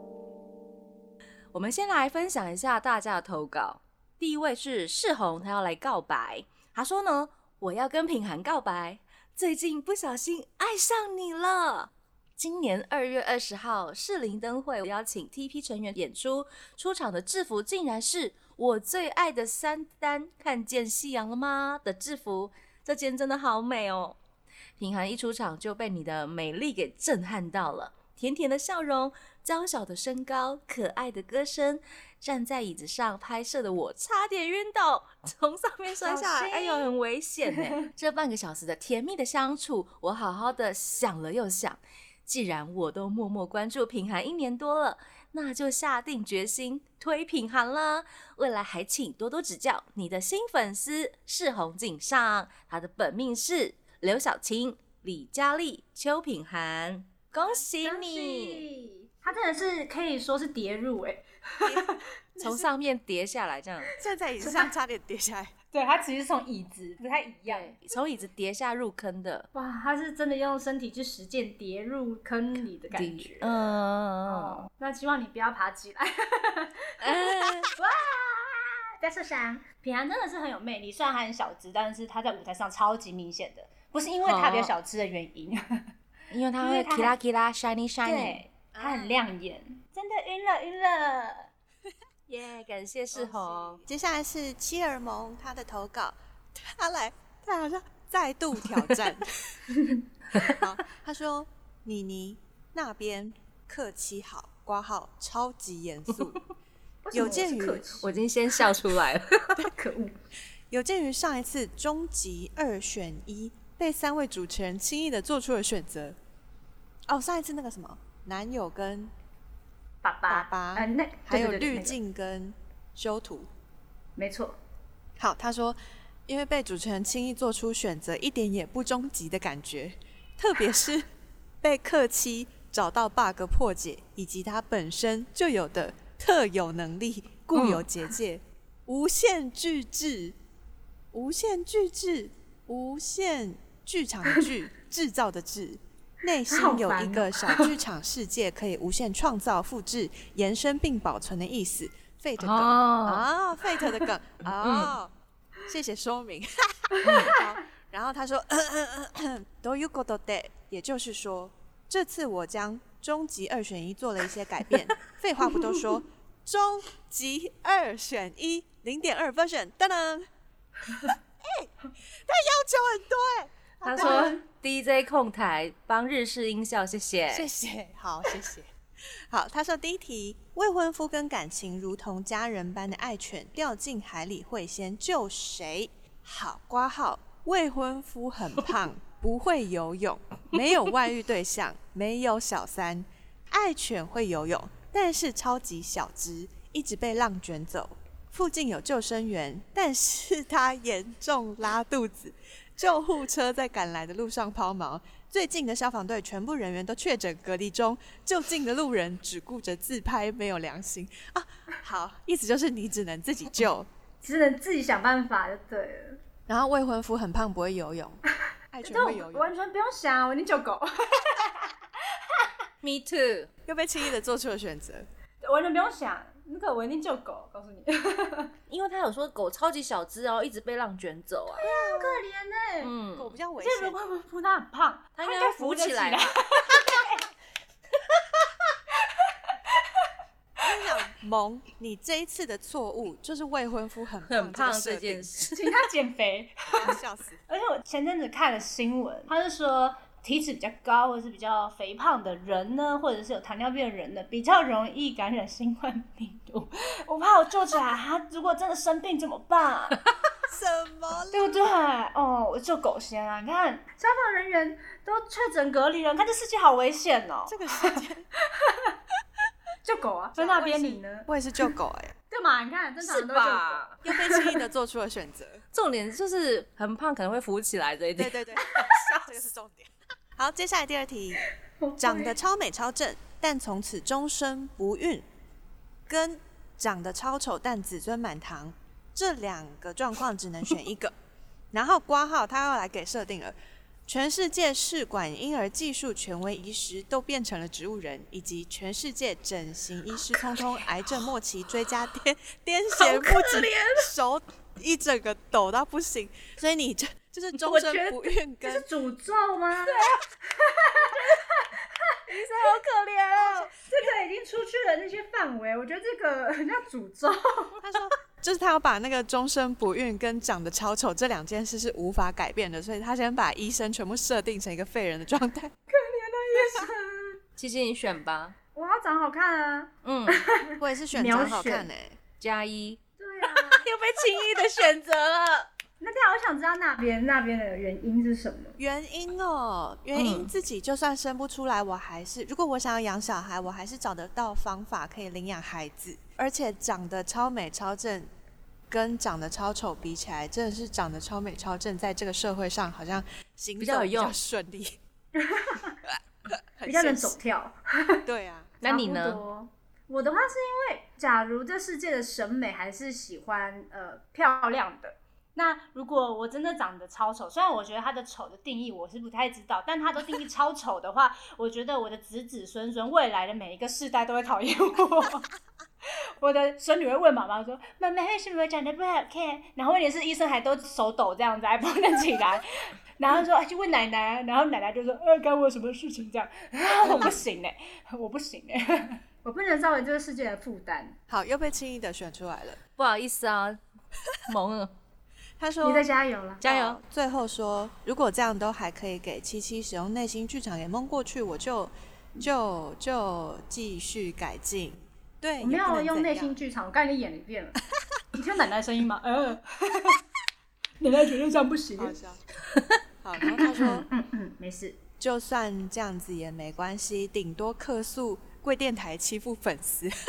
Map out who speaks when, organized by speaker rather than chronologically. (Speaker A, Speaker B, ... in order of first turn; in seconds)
Speaker A: 1.5-24.2, 24.8-58.6, 62.4-63.9, 67.5-69.5, 72.9-74.7, 77.0-77.7, 84.2-84.7, 86.3-88.4, 92.3-93.8, 108.0-109.6, 137.5-137.9, 152.4-153.2, 154.6-154.9, 157.1-157.3, 173.8-177.5, 222.8-223.5, 228.7-231.6, 232.8-233.3, 235.2-236.4, 244.3-245.7, 273.0-273.9, 275.7-279.2, 303.0-304.1, 307.6-308.2, 309.9-310.1, 312.3-313.7, 327.6-328.6, 330.0-330.4, 332.4-335.7, 340.1-340.5, 353.8-354.4, 358.8-359.4, 387.1-387.4, 393.0-393.8, 394.4-394.9, 396.6-397.0
Speaker B: 36.0-36.9, 57.4-62.6, 64.4-64.7, 65.7-67.8, 69.5-73.7, 74.2-85.9, 86.6-87.2, 88.0-91.5, 99.7-100.5, 107.0-108.1, 109.7-110.1, 120.0-122.0, 124.2-124.6, 146.5-147.7, 156.9-157.4, 174.0-174.4, 214.2-216.2, 218.8-222.5, 225.4-228.5, 231.6-232.9, 233.6-237.2, 245.5-247.0, 247.5-260.0, 261.3-268.9, 269.8-271.3, 272.3-274.6, 281.8-282.3, 308.6-312.8, 313.8-317.8, 325.9-327.4, 328.8-331.9, 333.2-333.9, 336.0-338.8, 355.4-356.0, 356.9-358.2, 358.8-375.5, 376.4-382.7, 383.2-391.2, 395.8-396.6, 405.6-407.8, 408.3-410.2, 411.0-412.1, 413.4-415.0
Speaker C: 61.6-62.0, 64.0-65.5, 88.7-89.2, 93.2-99.6, 100.4-106.4, 107.1-107.8, 110.7-116.2, 117.1-119.1, 120.3-123.5, 125.2-131.1, 131.6-140.4, 141.1-155.1, 155.7-170.3, 171.0-174.3, 177.3-178.7, 179.3-213.9, 216.5-218.2, 218.7-219.5, 223.7-225.1, 231.6-232.2, 233.2-234.0, 240.6-245.3, 246.7-247.4, 260.4-261.6, 267.5-268.2, 270.4-272.1, 274.0-275.6, 278.2-281.4, 282.0-285.2, 286.1-291.1, 291.7-293.6, 294.1-308.9, 313.3-313.7, 317.8-325.7, 330.8-332.2, 338.8-348.3, 348.9-355.0, 356.5-357.4, 358.2-358.7, 391.3-392.8, 395.6-396.1, 396.6-406.6, 412.0-412.4, 413.2-414.1, 415.2-420.1